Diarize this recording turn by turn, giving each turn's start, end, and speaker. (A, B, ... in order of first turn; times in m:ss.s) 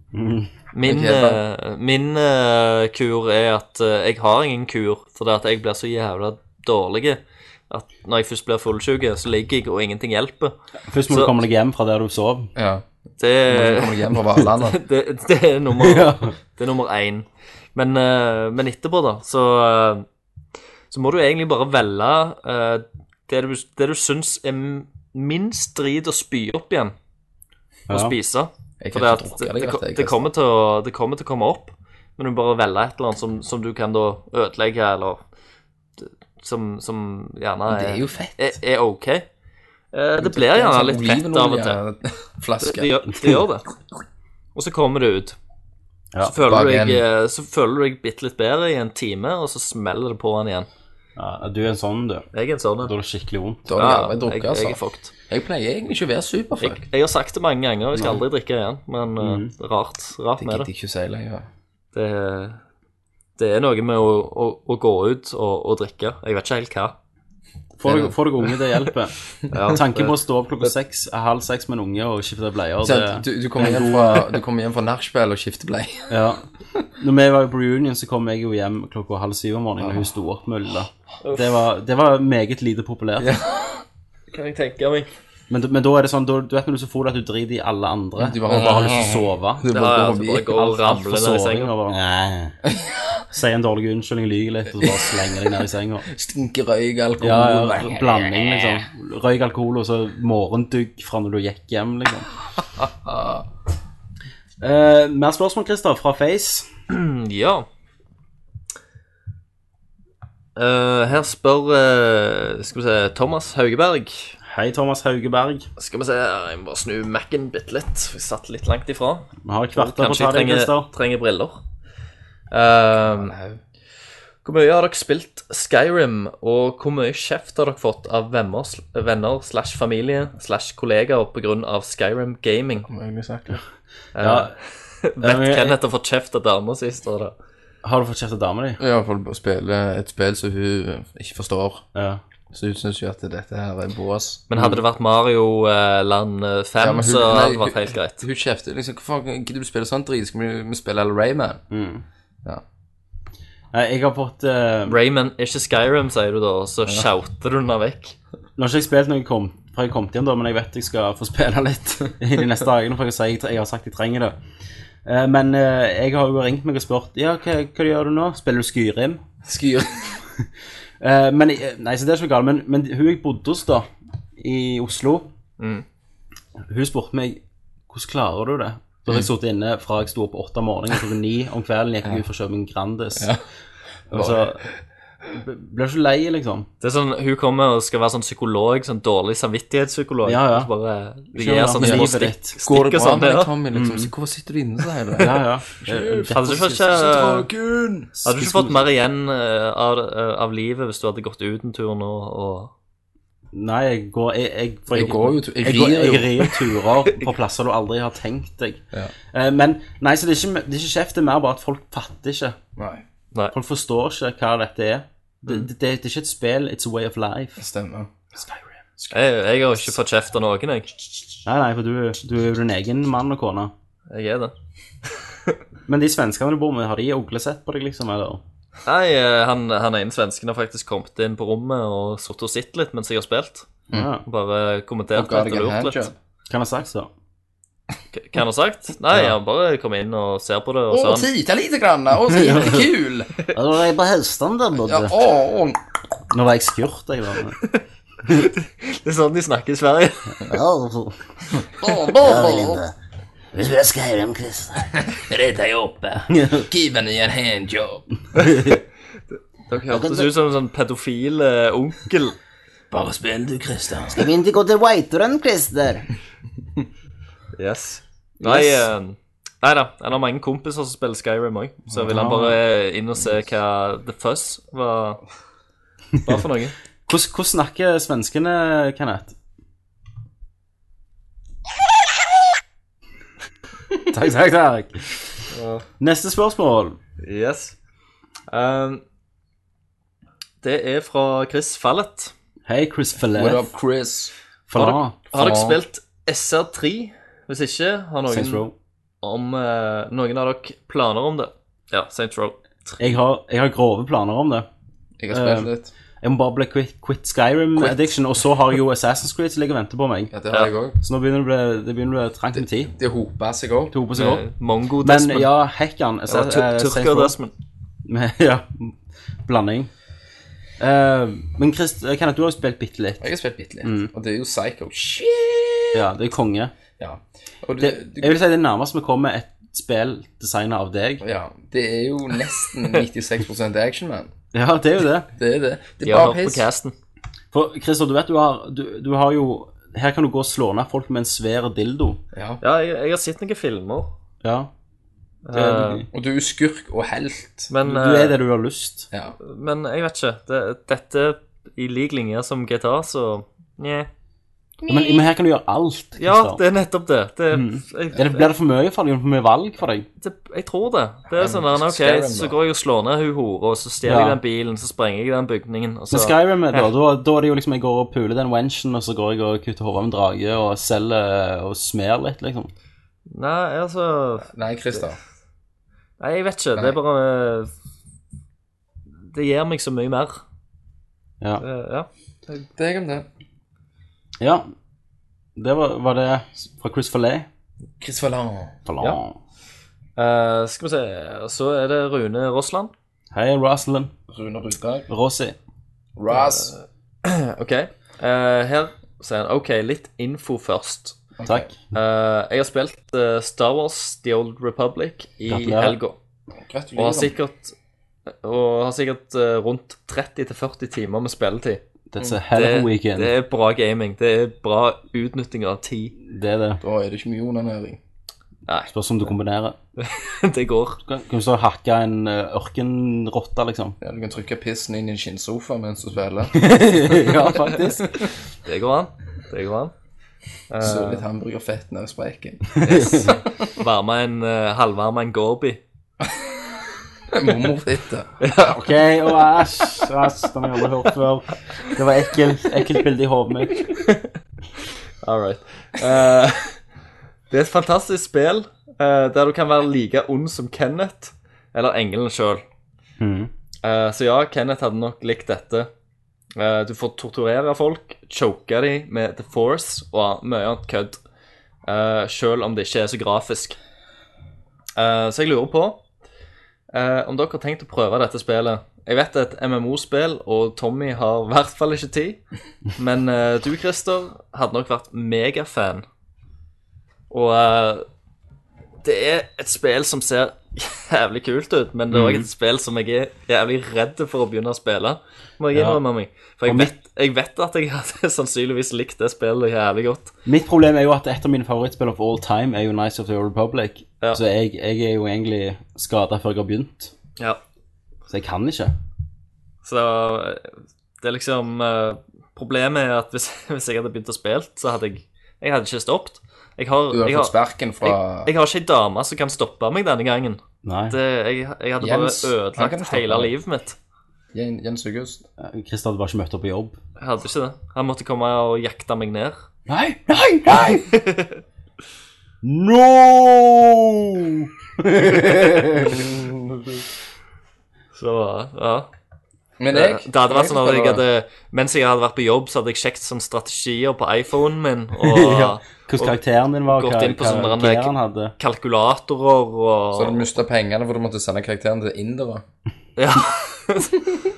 0:00.1-0:00.5 A
0:00.7-0:10.5 B
0:00.8-0:01.4 C
0:10.9-0:12.5 A
0:11.1-0:11.4 B
0:12.6-0:12.8 C
0:13.2-0:14.0 B
0:13.5-0:14.8 C
0:14.7-0:20.0 B
0:15.8-0:16.3 A
0:20.9-0:26.9 B
0:27.9-0:28.2 A
0:27.9-0:35.2 B
0:28.8-0:30.2 C
0:36.0-0:39.2 B
0:37.7-0:38.6 C
0:39.9-0:41.8 B
0:40.2-0:42.9 C
0:42.6-0:43.6 B
0:44.5-0:45.4 B
0:46.2-0:50.7 B
0:46.4-0:47.0 C
0:51.2-0:52.2 A
0:52.3-0:52.9 B
0:52.8-0:53.7 A
0:53.7-0:56.8 C
0:53.7-0:55.1 B
0:56.6-1:00.7 B
0:57.9-0:58.2 A
0:59.2-0:59.5 A
1:00.4-1:01.4 C
1:01.9-1:02.6 B
1:03.4-1:06.9 B
1:07.8-1:14.4 A
1:07.8-1:08.1 C
1:09.5-1:10.2 B
1:12.8-1:16.1 C
1:16.1-1:16.4 A
1:17.0-1:23.3 A
1:19.8-1:20.1 C
1:21.2-1:21.6 B
1:23.2-1:23.8 C
1:24.3-1:25.1 B
1:25.5-1:29.6 A
1:28.2-1:30.5 C
1:29.7-1:31.7 B
1:30.4-1:32.6 A
1:32.7-1:33.2 C
1:33.3-1:36.1 A
1:34.8-1:35.1 C
1:36.1-1:38.4 C
1:37.2-1:42.3 A
1:42.8-1:43.4 C
1:44.6-1:46.7 A
1:46.9-1:47.6 B
1:50.6-1:54.4 B
1:54.4-1:55.7 A
1:55.8-2:01.6 B
1:59.4-2:00.9 A
2:02.5-2:03.3 B
2:03.0-2:03.6 C
2:04.4-2:12.9 B
2:12.9-2:13.6 C
2:14.1-2:17.3 B
2:14.2-2:14.5 A
2:15.2-2:15.8 A
2:17.8-2:18.8 A
2:18.8-2:21.8 C
2:21.9-2:22.2 A
2:22.5-2:24.5 C
2:24.5-2:28.2 B
2:26.8-2:31.6 C
2:31.7-2:32.0 A
2:33.7-2:35.0 A
2:34.8-2:38.2 B
2:38.6-2:44.4 A
2:45.0-2:49.2 A
2:49.4-2:50.2 C
2:51.0-2:53.9 A
2:54.4-2:55.3 A
2:55.6-2:55.8 B
2:56.6-3:03.3 A
3:04.1-3:04.6 A
3:04.1-3:04.7 C
3:05.3-3:06.7 A
3:06.8-3:13.5 B
3:10.2-3:10.7 A
3:11.3-3:12.5 A
3:11.8-3:12.1 C
3:12.6-3:18.2 C
3:13.7-3:14.1 A
3:15.2-3:16.5 A
3:16.3-3:17.5 B
3:18.2-3:22.7 B
3:18.4-3:18.8 A
3:23.5-3:32.6 A
3:24.9-3:26.5 C
3:32.8-3:33.0 C
3:33.5-3:37.6 A
3:37.6-3:38.1 C
3:39.1-3:40.9 B
3:41.4-3:43.7 A
3:44.1-3:44.5 B
3:45.1-3:45.6 B
3:45.9-3:48.4 A
3:48.8-3:53.7 B
3:53.9-3:54.2 A
3:54.2-3:56.1 B
3:55.1-3:56.1 C
3:56.5-3:57.1 A
3:58.1-4:01.3 B
4:00.9-4:03.4 C
4:02.3-4:02.8 A
4:03.5-4:05.1 A
4:04.8-4:05.8 C
4:06.3-4:07.6 A
4:07.7-4:10.4 B
4:10.4-4:11.2 A
4:11.6-4:12.8 C
4:12.1-4:12.9 A
4:13.5-4:14.9 A
4:14.9-4:18.0 C
4:16.3-4:16.7 A
4:18.4-4:18.8 A
4:19.7-4:22.4 B
4:19.9-4:20.3 A
4:22.9-4:24.3 C
4:24.1-4:26.0 A
4:27.6-4:35.2 B
4:28.4-4:28.8 A
4:31.9-4:32.5 C
4:32.1-4:32.4 A
4:36.2-4:36.7 B
4:37.1-4:39.3 A
4:44.1-4:45.2 A
4:45.5-4:45.8 B
4:46.0-4:47.0 A
4:47.2-4:47.8 B
4:48.5-4:49.0 B
4:50.6-4:52.3 B
4:52.6-4:53.7 A
4:53.4-4:54.3 C
4:54.7-4:55.2 A
4:54.7-4:58.6 B
4:55.3-4:55.8 C
4:58.3-4:58.7 A
4:59.2-5:03.0 B
5:03.0-5:04.7 A
5:05.2-5:05.9 C
5:05.3-5:05.7 A
5:06.2-5:10.3 A
5:10.3-5:11.0 C
5:11.0-5:12.9 A
5:12.6-5:13.9 C
5:13.9-5:14.4 A
5:14.1-5:15.5 B
5:15.0-5:17.3 A
5:16.3-5:17.5 B
5:18.0-5:19.9 A
5:20.8-5:23.3 A
5:23.2-5:26.0 C
5:23.8-5:24.1 A
5:25.9-5:26.7 A
5:27.0-5:28.4 C
5:27.8-5:31.2 A
5:31.2-5:34.3 C
5:34.5-5:35.3 A
5:35.4-5:36.7 C
5:36.0-5:36.9 B
5:37.5-5:42.2 A
5:42.3-5:42.6 C
5:42.6-5:44.1 B
5:44.4-5:44.7 A
5:45.4-5:46.0 B
5:45.5-5:46.1 A
5:46.1-5:47.7 C
5:47.7-5:48.4 B
5:47.8-5:49.1 A
5:49.1-5:49.4 C
5:49.4-5:54.1 B
5:54.8-5:55.2 C
5:54.9-5:56.6 A
5:56.2-5:58.5 B
5:57.5-6:00.0 A
6:00.2-6:06.9 B
6:01.3-6:02.6 C
6:04.0-6:04.4 A
6:06.1-6:12.7 A
6:13.3-6:15.0 B
6:14.5-6:15.2 C
6:16.2-6:17.7 B
6:19.2-6:20.4 B
6:21.6-6:22.6 B
6:22.8-6:23.2 C
6:24.4-6:24.7 A
6:25.6-6:27.5 A
6:28.0-6:28.8 C
6:28.8-6:29.4 A
6:30.2-6:32.9 B
6:33.3-6:34.1 A
6:34.3-6:35.1 C
6:35.1-6:35.6 A
6:36.2-6:36.8 C
6:36.3-6:36.7 B
6:37.2-6:41.2 B
6:41.4-6:41.7 C
6:41.4-6:41.8 A
6:41.9-6:46.2 B
6:45.5-6:46.0 A
6:46.6-6:47.3 C
6:47.0-6:47.7 B
6:48.3-6:51.8 B
6:52.1-6:53.3 A
6:52.5-6:56.1 B
6:56.2-6:56.8 A
6:56.8-6:58.0 C
6:58.9-6:59.8 A
7:00.0-7:01.0 B
7:01.0-7:04.0 A
7:04.0-7:07.4 C
7:06.5-7:08.1 A
7:08.6-7:09.9 B
7:10.7-7:11.2 B
7:10.8-7:13.4 C
7:12.8-7:13.4 A
7:12.8-7:15.8 B
7:17.3-7:18.3 C
7:18.4-7:18.9 B
7:18.6-7:23.8 A
7:23.9-7:24.3 B
7:25.2-7:26.8 B
7:27.5-7:32.6 B
7:33.2-7:33.5 A
7:33.8-7:35.9 B
7:36.6-7:41.2 B
7:41.8-7:43.8 B
7:45.0-7:46.0 B
7:46.9-7:52.4 B
7:53.0-7:56.0 B
7:57.3-7:58.0 B
7:59.0-8:10.3 B
8:02.1-8:02.5 A
8:05.7-8:06.0 A
8:06.6-8:06.9 A
8:10.4-8:17.1 A
8:18.3-8:18.9 A
8:19.8-8:34.0 B
8:27.1-8:28.5 C
8:30.8-8:31.2 A
8:32.0-8:33.5 C
8:34.5-8:35.4 C
8:35.6-8:37.0 A
8:37.2-8:39.6 B
8:39.9-8:41.0 A
8:40.7-8:41.6 B
8:42.6-8:46.2 A
8:46.1-8:47.0 C
8:48.1-8:49.1 B
8:49.8-8:51.2 C
8:49.9-8:56.4 B
8:55.2-8:58.5 A
8:56.9-9:00.4 B
9:00.1-9:02.6 C
9:03.2-9:04.3 B